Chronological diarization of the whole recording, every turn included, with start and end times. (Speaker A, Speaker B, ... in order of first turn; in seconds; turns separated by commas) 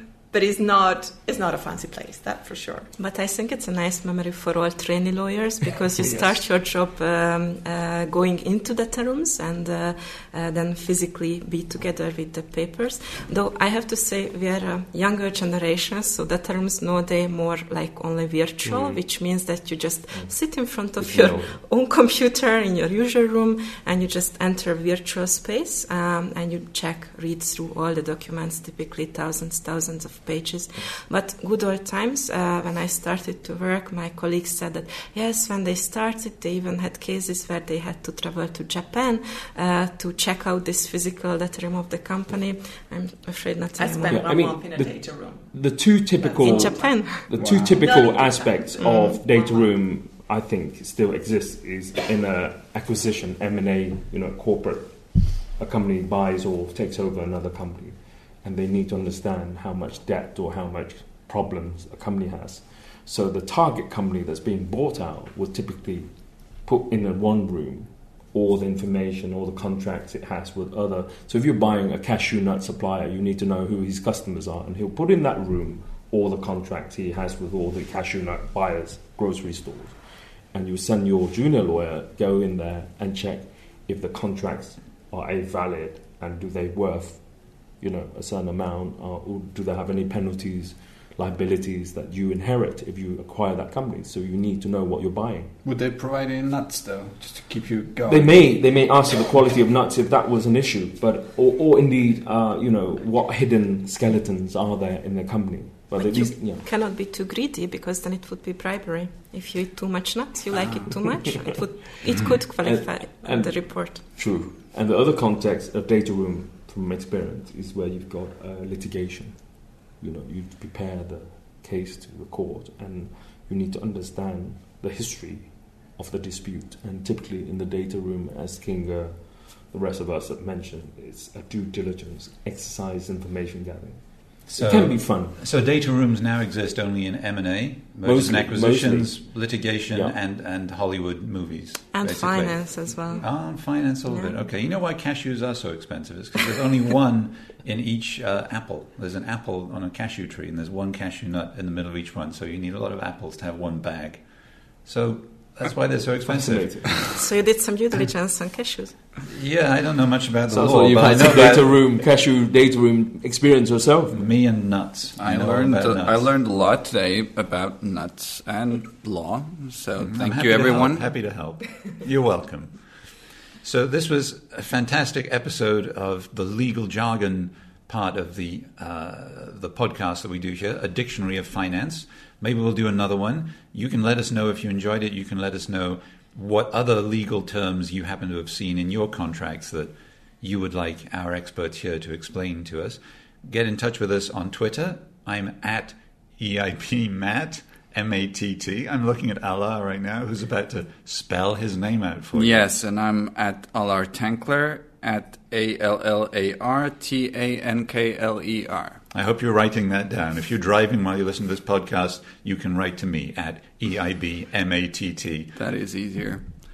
Speaker A: 0.3-2.9, Speaker B: 3.0-44.2, Speaker C: 18.7-18.9, Speaker C: 20.1-21.6, Speaker A: 43.8-45.5, Speaker C: 44.1-66.1, Speaker A: 46.2-47.2, Speaker B: 46.4-47.2, Speaker D: 47.3-47.8, Speaker A: 47.7-49.7, Speaker B: 48.8-49.1, Speaker C: 66.6-80.0, Speaker C: 80.5-95.5, Speaker D: 95.6-98.5, Speaker C: 98.1-106.7, Speaker B: 106.0-114.0, Speaker C: 112.2-135.3, Speaker E: 134.5-154.2, Speaker C: 138.0-139.3, Speaker B: 141.9-144.3, Speaker E: 154.8-157.0, Speaker C: 156.2-157.2, Speaker B: 157.1-159.0, Speaker E: 159.2-161.7, Speaker C: 160.5-164.2, Speaker E: 164.1-166.3, Speaker D: 165.2-171.1, Speaker E: 170.0-172.9, Speaker E: 173.6-202.7, Speaker D: 202.3-209.0, Speaker E: 209.1-215.5, Speaker D: 215.6-216.5